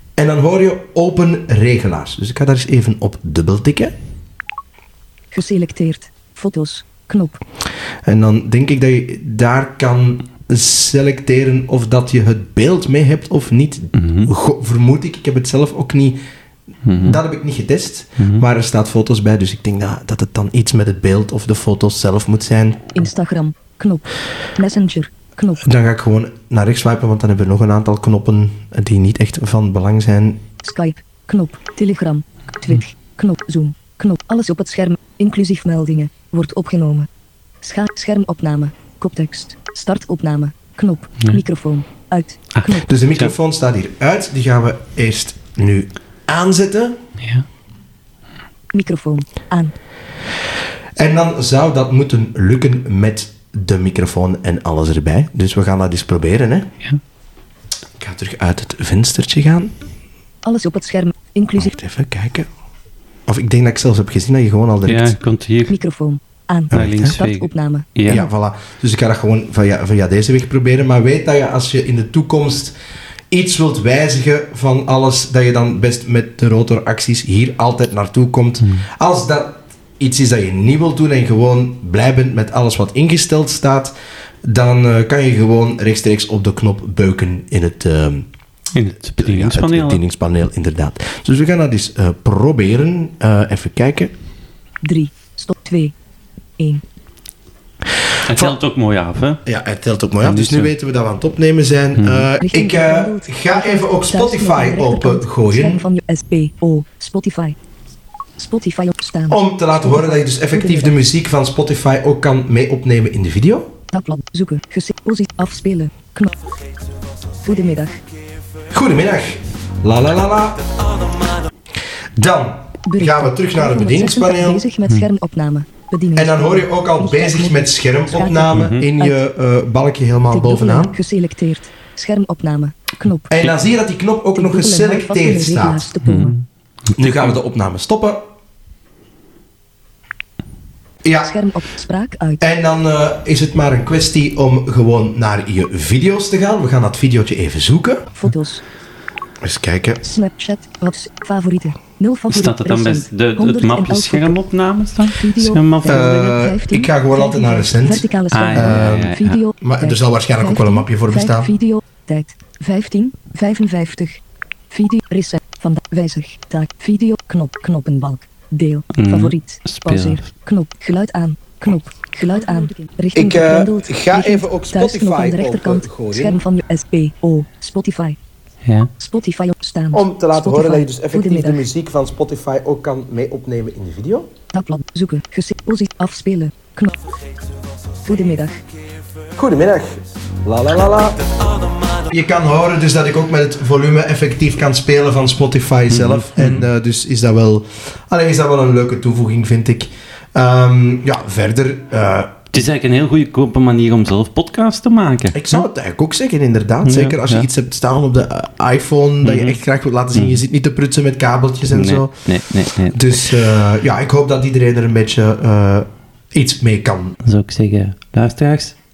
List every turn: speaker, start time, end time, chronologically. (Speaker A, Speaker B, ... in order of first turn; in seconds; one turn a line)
Speaker A: 0.2-3.9
Speaker B: 5.3-7.4
Speaker A: 8.1-16.2
Speaker C: 13.9-14.3
Speaker C: 16.9-17.2
Speaker A: 16.9-22.9
Speaker C: 18.2-18.4
Speaker B: 22.9-25.7
Speaker A: 25.6-30.4
Speaker B: 30.6-37.1
Speaker B: 37.6-42.9
Speaker C: 42.5-43.3
Speaker A: 42.9-47.0
Speaker C: 47.2-47.5
Speaker B: 48.7-49.7
Speaker A: 51.0-56.7
Speaker A: 58.0-59.7
Speaker B: 60.4-61.7
Speaker A: 61.5-62.5
Speaker A: 63.3-65.1
Speaker C: 64.8-65.8
Speaker B: 65.7-68.0
Speaker A: 66.7-67.2
Speaker C: 66.7-68.3
Speaker A: 68.0-72.8
Speaker A: 73.3-83.9
Speaker A: 84.5-88.3
Speaker C: 88.7-90.0
Speaker A: 89.2-94.1
Speaker B: 94.8-95.9
Speaker C: 98.2-99.4
Speaker A: 99.5-105.8
Speaker C: 100.2-100.7
Speaker C: 102.0-102.3
Speaker B: 102.4-107.6
Speaker B: 108.4-110.9
Speaker A: 109.3-113.7
Speaker B: 113.9-116.3
Speaker B: 117.4-118.0
Speaker A: 118.7-120.8
Speaker A: 122.2-124.6
Speaker B: 122.9-129.2
Speaker A: 126.2-131.0
Speaker C: 128.5-128.9
Speaker B: 130.3-133.4
Speaker A: 133.3-135.9
Speaker B: 134.3-136.4
Speaker C: 136.0-136.4
Speaker A: 136.9-138.2
Speaker A: 141.1-141.3
Speaker B: 141.2-142.4
Speaker A: 142.4-148.1
Speaker B: 148.1-148.7
Speaker A: 149.4-150.0
Speaker B: 150.0-154.4
Speaker C: 152.3-156.1
Speaker B: 155.1-178.2
Speaker A: 155.9-161.5
Speaker C: 158.3-159.4
Speaker C: 168.9-170.2
Speaker A: 173.2-176.4
Speaker C: 178.7-178.9
Speaker B: 179.0-181.6
Speaker A: 179.9-184.3
Speaker B: 184.5-187.0
Speaker B: 188.0-188.6
Speaker A: 189.3-191.4
Speaker A: 191.9-202.4
Speaker C: 195.9-196.7
Speaker C: 202.5-205.7
Speaker A: 205.3-212.2
Speaker C: 206.8-207.5
Speaker C: 209.2-209.6
Speaker C: 210.1-210.4
Speaker C: 211.7-213.3
Speaker A: 212.9-217.2
Speaker C: 217.2-218.8